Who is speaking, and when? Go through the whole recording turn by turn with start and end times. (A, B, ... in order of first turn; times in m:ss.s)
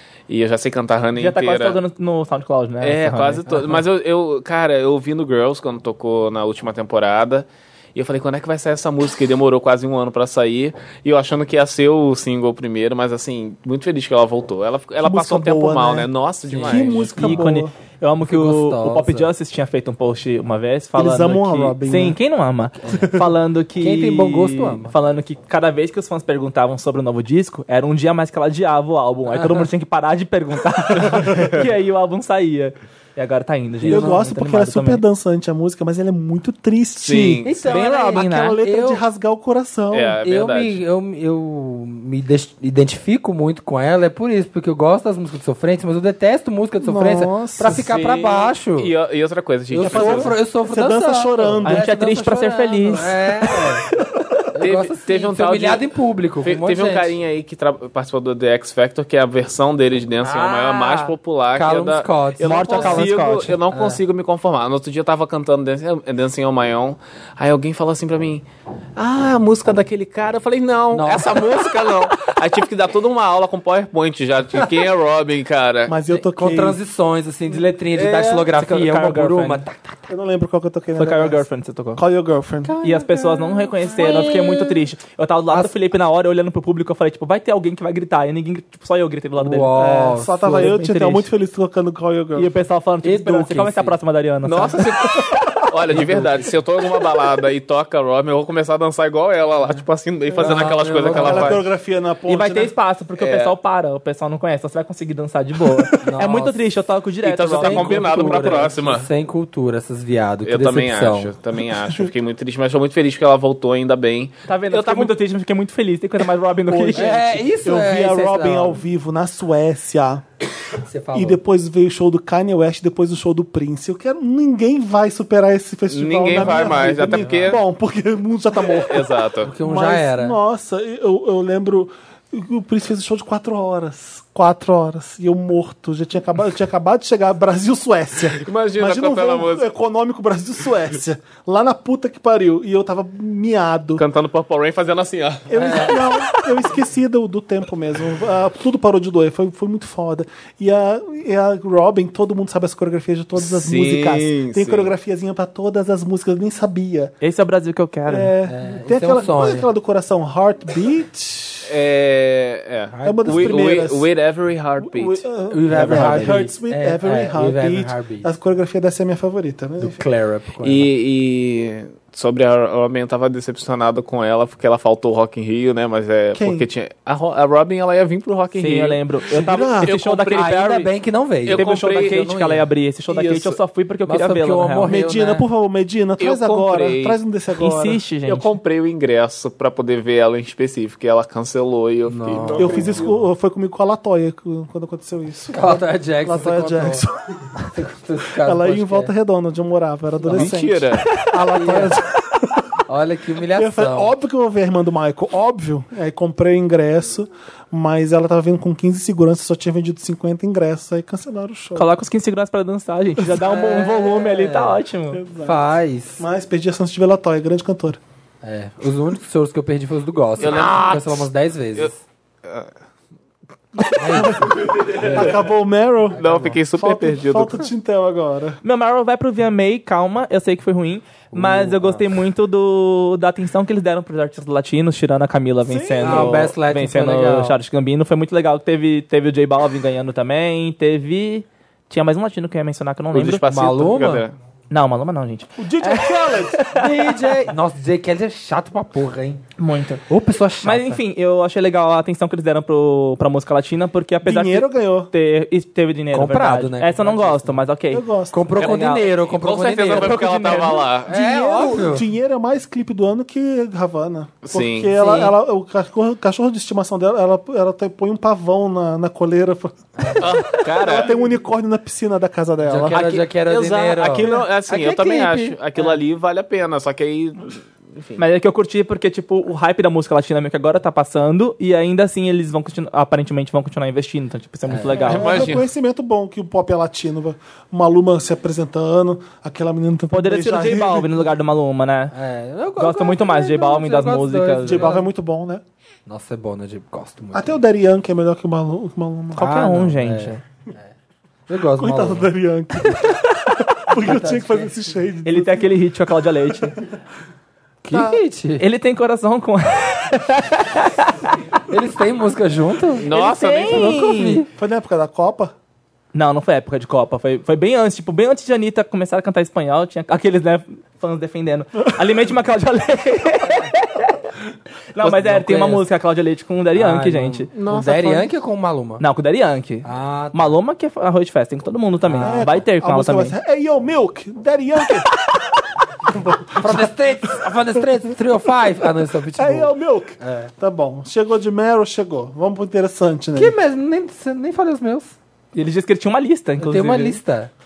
0:00.3-0:01.8 A
0:01.2-0:03.6 B
0:02.8-0:17.3 A
0:15.0-0:16.1 C
0:16.5-0:35.0 B
0:16.6-0:17.7 C
0:18.2-0:19.3 D
0:21.0-0:22.2 C
0:22.8-0:23.2 D
0:22.9-0:23.2 C
0:23.8-0:24.9 D
0:29.3-0:29.7 D
0:33.8-0:34.2 D
0:33.8-0:40.2 C
0:37.0-0:37.6 A
0:37.4-0:39.0 D
0:37.7-0:38.6 B
0:39.9-0:40.8 A
0:40.2-0:48.9 D
0:46.8-0:47.9 C
0:47.7-0:50.3 A
0:49.7-0:53.8 D
0:49.8-0:52.3 C
0:51.6-0:53.6 B
0:54.5-0:57.1 D
0:54.6-0:55.9 A
0:56.4-1:16.0 A
1:00.2-1:01.1 B
1:01.6-1:04.0 D
1:02.4-1:03.5 B
1:10.9-1:11.4 D
1:15.9-1:16.8 C
1:16.4-1:20.1 D
1:18.0-1:19.6 B
1:20.1-1:21.4 C
1:21.0-1:22.0 B
1:22.0-1:22.8 C
1:22.6-1:24.8 D
1:22.8-1:29.8 B
1:29.4-1:30.7 D
1:29.8-1:32.5 C
1:30.5-1:31.3 B
1:32.4-1:35.0 B
1:33.0-1:34.0 D
1:34.4-1:41.6 A
1:35.9-1:36.5 D
1:40.4-1:41.6 D
1:41.1-1:42.7 C
1:42.3-1:48.7 B
1:43.2-1:43.5 A
1:46.0-1:46.6 D
1:47.2-1:49.1 A
1:47.6-1:51.3 D
1:50.4-1:55.1 A
1:51.6-1:52.1 C
1:54.5-1:57.2 B
1:56.7-2:00.2 C
1:57.0-1:58.8 D
2:00.9-2:01.4 D
2:01.1-2:24.0 C
2:05.9-2:07.6 A
2:06.3-2:07.5 D
2:08.7-2:09.5 A
2:09.4-2:10.4 D
2:18.4-2:19.6 A
2:24.0-2:26.0 A
2:25.5-2:37.1 C
2:25.6-2:26.0 D
2:33.4-2:34.9 A
2:37.2-2:38.3 B
2:38.1-2:41.7 C
2:38.5-2:39.7 D
2:41.7-2:46.4 A
2:42.9-2:43.6 D
2:43.0-2:44.1 C
2:44.8-2:50.0 C
2:45.5-2:48.3 D
2:49.8-2:50.9 D
2:50.6-3:00.6 A
2:56.3-2:56.7 C
2:58.5-3:00.9 B
2:59.3-2:59.9 C
3:00.3-3:02.7 D
3:01.5-3:02.3 A
3:01.5-3:04.9 B
3:03.1-3:03.6 A
3:04.1-3:05.5 D
3:04.9-3:08.0 C
3:06.2-3:07.2 A
3:07.6-3:08.6 B
3:08.3-3:13.1 A
3:12.1-3:13.0 D
3:12.6-3:17.2 C
3:15.5-3:17.0 D
3:17.7-3:19.1 D
3:18.4-3:22.7 C
3:20.2-3:20.5 D
3:20.3-3:21.0 A
3:21.5-3:22.0 D
3:22.9-3:24.1 D
3:23.5-3:31.9 C
3:31.8-3:35.2 B
3:33.4-3:34.8 D
3:35.1-3:35.6 C
3:35.4-3:36.2 D
3:36.2-3:38.0 C
3:38.4-3:42.0 D
3:40.4-3:41.9 A
3:42.4-3:42.7 A
3:43.8-3:45.3 A
3:44.0-3:45.4 D
3:44.1-3:48.6 C
3:46.1-3:46.6 D
3:46.2-3:47.6 A
3:48.6-4:03.4 B
3:51.3-3:52.0 D
3:55.6-3:56.5 C
3:56.0-3:57.6 D
4:03.1-4:04.3 A
4:03.5-4:04.2 D
4:04.7-4:06.9 B
4:05.6-4:06.7 C
4:06.7-4:09.4 D
4:09.6-4:10.0 B
4:10.1-4:11.0 D
4:10.6-4:18.0 B
4:14.2-4:15.1 C
4:16.1-4:17.6 D
4:17.9-4:18.6 C
4:18.3-4:22.0 D
4:18.6-4:19.1 B
4:18.6-4:21.2 A
4:19.8-4:21.0 B
4:21.1-4:33.1 C
4:24.4-4:24.9 A
4:25.0-4:25.3 D
4:30.0-4:30.2 D
4:30.2-4:31.1 A
4:32.6-4:36.0 D
4:32.9-4:38.2 A
4:38.2-4:45.4 B
4:44.7-4:45.2 D
4:45.0-4:51.2 C
4:45.1-4:45.6 A
4:50.1-4:52.1 B
4:52.1-4:55.1 D
4:52.8-4:55.0 B
4:54.6-4:55.6 C
4:56.1-4:57.6 D
4:57.3-4:59.6 C
4:59.4-5:00.4 B
4:59.4-5:00.9 D
5:01.5-5:02.3 D
5:01.8-5:03.2 C
5:03.8-5:05.7 C
5:03.9-5:04.7 D
5:05.2-5:06.8 B
5:07.8-5:08.6 D
5:07.9-5:08.2 C
5:08.6-5:11.3 B
5:11.7-5:13.1 D
5:13.0-5:14.1 A
5:13.1-5:14.4 B
5:13.7-5:14.5 D
5:14.5-5:15.5 C
5:16.1-5:24.1 B
5:25.0-5:27.5 B
5:25.2-5:25.8 D
5:26.8-5:29.0 D
5:27.6-5:28.2 A
5:29.0-5:33.4 B
5:29.8-5:30.5 D
5:32.0-5:32.4 D
5:32.2-5:35.1 C
5:36.0-5:37.3 C
5:36.6-5:40.5 D
5:39.4-5:43.6 C
5:43.4-5:45.2 D
5:45.5-5:47.2 B
5:46.6-5:47.5 D